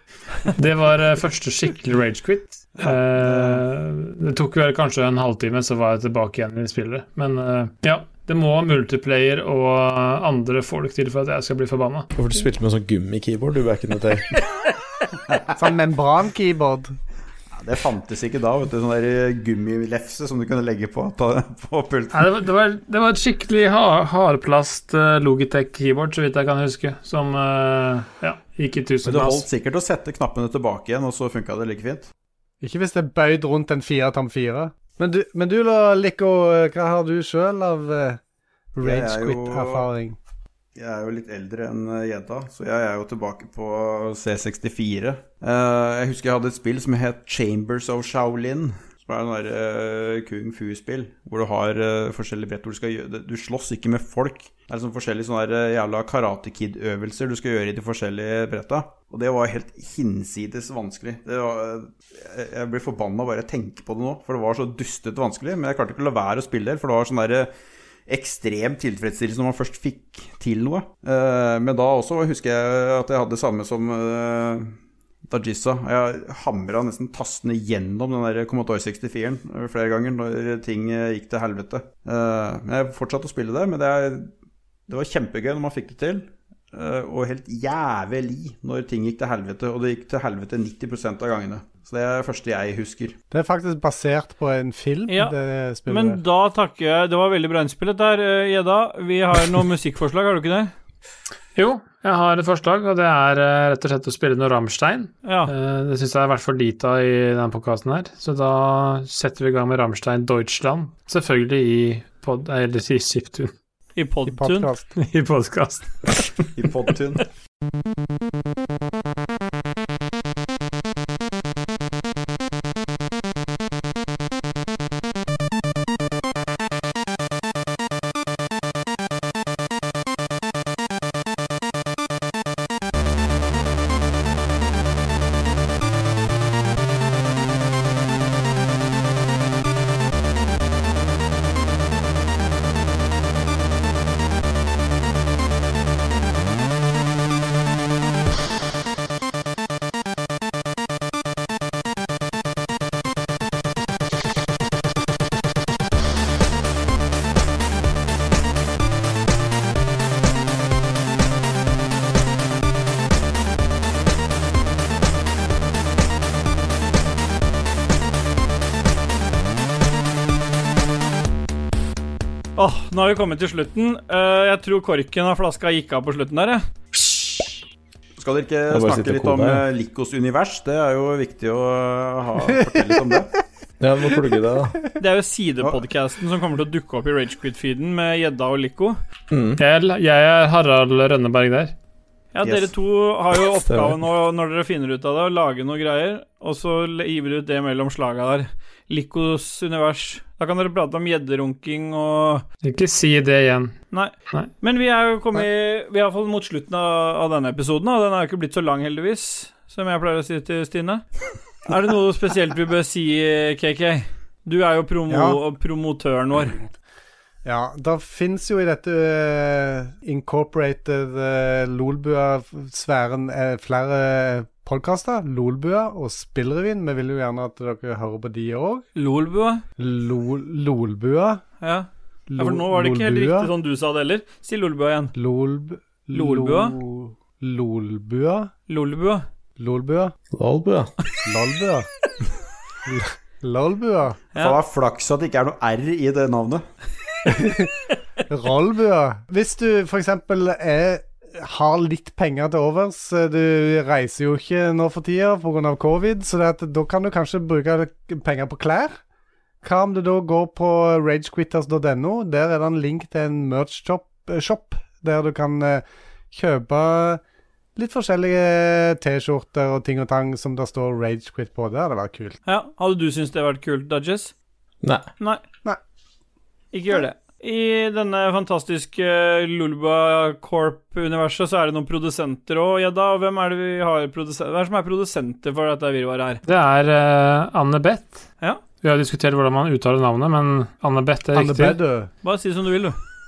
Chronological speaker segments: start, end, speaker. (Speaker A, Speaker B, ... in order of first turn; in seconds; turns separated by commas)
Speaker A: 0.4-12.1, Speaker B: 2.8-3.6, Speaker C: 12.2-14.3, Speaker D: 15.6-16.9, Speaker B: 17.5-22.3, Speaker A: 22.1-29.4, Speaker B: 29.0-32.1, Speaker D: 32.6-38.2, Speaker D: 38.7-40.2, Speaker B: 38.8-39.9, Speaker B: 40.8-67.5, Speaker B: 68.1-74.7, Speaker B: 75.3-84.3, Speaker B: 84.9-93.2, Speaker D: 93.3-96.2, Speaker E: 95.1-95.3, Speaker E: 95.9-100.7, Speaker A: 101.5-113.5, Speaker E: 105.2-105.5, Speaker E: 114.0-114.7, Speaker D: 114.3-114.9, Speaker A: 115.0-116.2, Speaker B: 116.5-117.2, Speaker E: 172.6-176.6, Speaker B: 178.2-183.3, Speaker C: 178.7-179.6, Speaker D: 182.6-183.2, Speaker C: 183.8-184.8, Speaker E: 185.0-189.0, Speaker C: 189.3-189.6, Speaker A: 189.6-191.7, Speaker E: 192.3-202.4, Speaker B: 192.4-192.7, Speaker C: 193.7-194.0, Speaker A: 202.6-203.8, Speaker E: 203.9-211.0, Speaker E: 211.7-216.6, Speaker D: 215.1-215.4, Speaker D: 217.4-228.8, Speaker E: 228.9-229.6, Speaker D: 229.8-231.4, Speaker E: 231.6-235.1, Speaker D: 232.3-233.5, Speaker D: 235.2-238.5, Speaker E: 236.1-236.8, Speaker E: 238.7-239.2, Speaker D: 239.6-240.1, Speaker C: 240.3-240.9, Speaker D: 241.2-241.9, Speaker D: 242.8-244.2, Speaker E: 244.3-244.6, Speaker B: 244.4-246.6, Speaker D: 247.2-247.7, Speaker D: 248.3-258.9, Speaker D: 259.6-267.2, Speaker D: 267.8-272.4, Speaker E: 272.4-274.3, Speaker E: 276.7-286.4, Speaker A: 286.4-288.2, Speaker A: 288.8-291.8, Speaker D: 291.3-292.1, Speaker E: 292.2-292.9